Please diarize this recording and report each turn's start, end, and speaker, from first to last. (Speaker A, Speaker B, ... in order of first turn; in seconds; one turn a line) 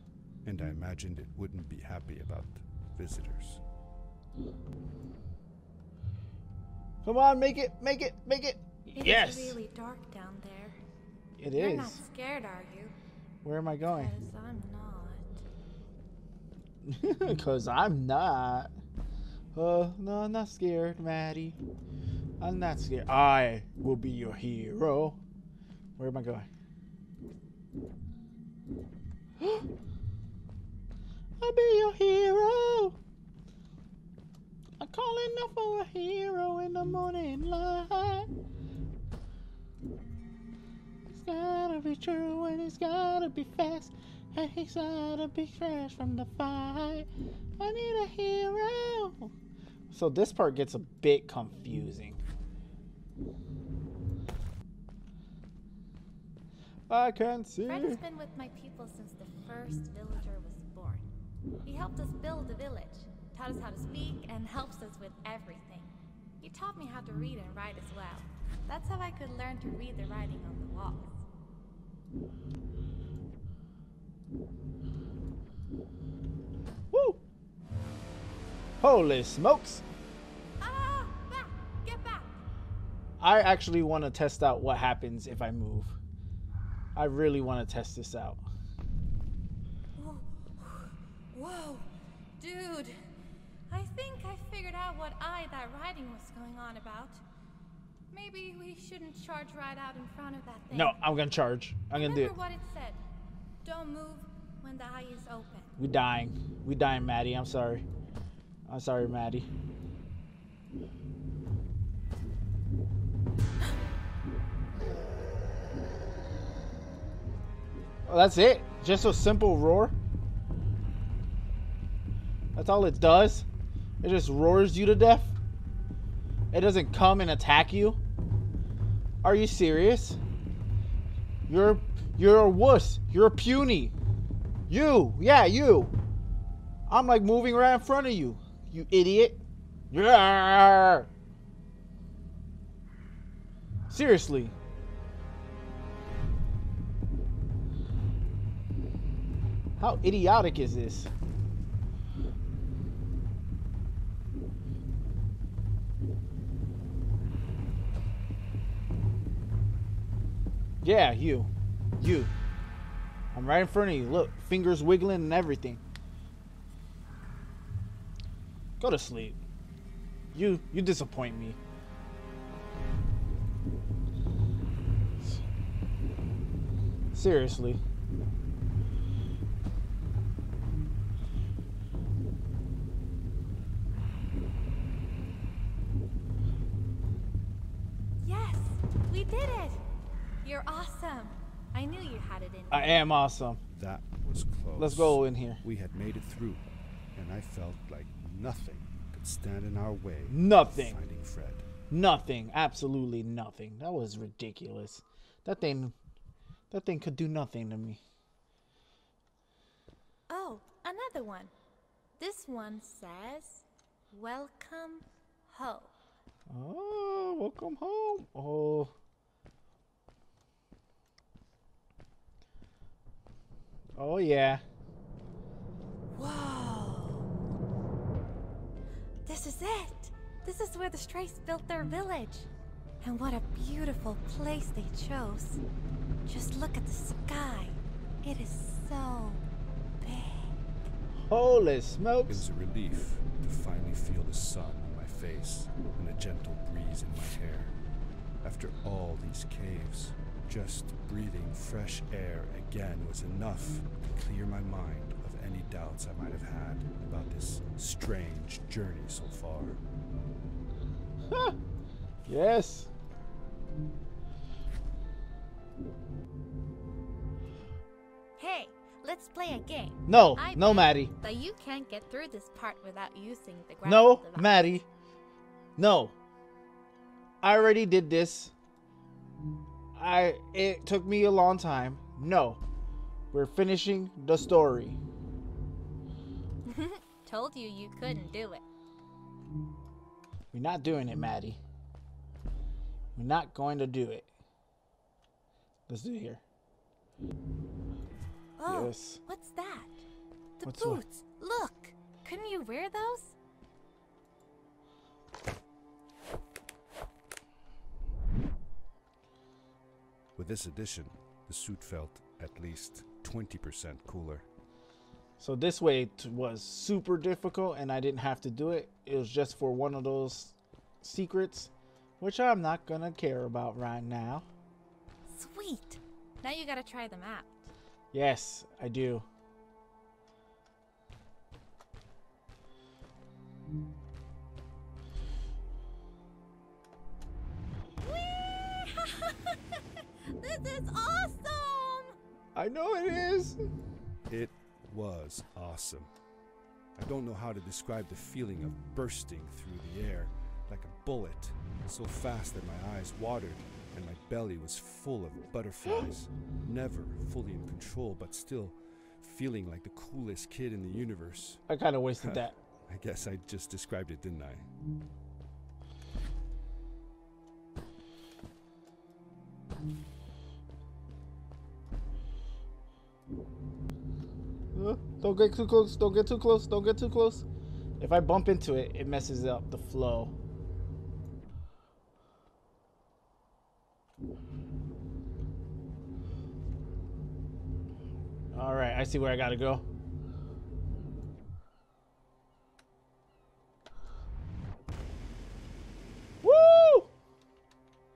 Speaker A: 0.4-3.6
Speaker B: 7.0-9.6
Speaker C: 8.9-10.8
Speaker B: 11.4-12.0
Speaker C: 11.6-12.9
Speaker B: 13.4-14.1
Speaker C: 13.9-15.4
Speaker B: 16.8-18.7
Speaker B: 19.6-21.6
Speaker B: 22.4-25.2
Speaker B: 26.0-26.5
Speaker B: 29.4-29.6
Speaker B: 31.4-33.0
Speaker B: 34.8-38.3
Speaker B: 41.1-47.1
Speaker B: 47.6-49.3
Speaker B: 49.9-52.2
Speaker B: 56.9-58.0
Speaker C: 57.7-61.1
Speaker C: 61.6-71.2
Speaker B: 76.9-77.2
Speaker B: 78.8-79.8
Speaker C: 80.6-82.4
Speaker B: 83.2-86.0
Speaker B: 87.0-88.5
Speaker C: 90.0-93.0
Speaker C: 93.7-97.2
Speaker C: 98.1-101.1
Speaker B: 100.7-102.3
Speaker C: 101.9-103.0
Speaker C: 103.6-105.7
Speaker B: 105.8-107.8
Speaker B: 108.7-109.5
Speaker B: 118.1-120.0
Speaker B: 122.5-123.5
Speaker B: 124.0-125.4
Speaker B: 126.5-128.0
Speaker B: 129.2-130.2
Speaker B: 131.5-133.9
Speaker B: 134.7-135.9
Speaker B: 136.9-141.1
Speaker B: 143.9-144.6
Speaker B: 149.8-151.1
Speaker B: 160.8-162.3
Speaker B: 163.3-165.8
Speaker B: 168.8-169.4
Speaker B: 170.3-171.6
Speaker B: 177.1-177.8
Speaker C: 188.2-189.8
Speaker C: 190.4-193.1
Speaker B: 192.7-193.6
Speaker A: 193.7-201.7
Speaker B: 194.8-195.6
Speaker B: 200.3-201.0
Speaker B: 201.9-205.9
Speaker B: 206.7-208.0
Speaker C: 210.3-211.5
Speaker C: 212.2-215.9
Speaker B: 216.5-218.9
Speaker B: 224.0-224.6
Speaker C: 226.1-227.3
Speaker C: 229.3-232.5
Speaker C: 233.0-235.6
Speaker C: 236.3-239.4
Speaker C: 240.0-240.6
Speaker B: 241.3-242.5
Speaker A: 242.3-247.8
Speaker A: 248.4-259.8
Speaker B: 261.3-261.6
Speaker B: 262.3-262.9
Speaker C: 268.4-274.7
Speaker B: 270.1-271.1
Speaker B: 273.8-274.9
Speaker B: 275.8-276.1
Speaker B: 277.4-278.5
Speaker B: 279.9-282.6
Speaker B: 283.3-285.0
Speaker C: 286.7-288.6
Speaker B: 290.5-291.6
Speaker B: 293.2-294.3
Speaker B: 295.9-296.4
Speaker C: 298.6-300.0
Speaker B: 298.7-299.2
Speaker C: 300.6-303.4
Speaker B: 300.6-301.0
Speaker A: 310.4-314.5
Speaker B: 315.4-324.5
Speaker C: 325.3-327.7
Speaker B: 328.1-329.3
Speaker C: 338.0-342.1
Speaker B: 342.6-343.6
Speaker A: 344.3-346.1
Speaker A: 347.0-361.6
Speaker B: 361.7-362.6
Speaker A: 362.2-364.7
Speaker B: 374.8-377.4
Speaker B: 378.0-380.4
Speaker B: 388.5-389.9
Speaker B: 396.4-397.1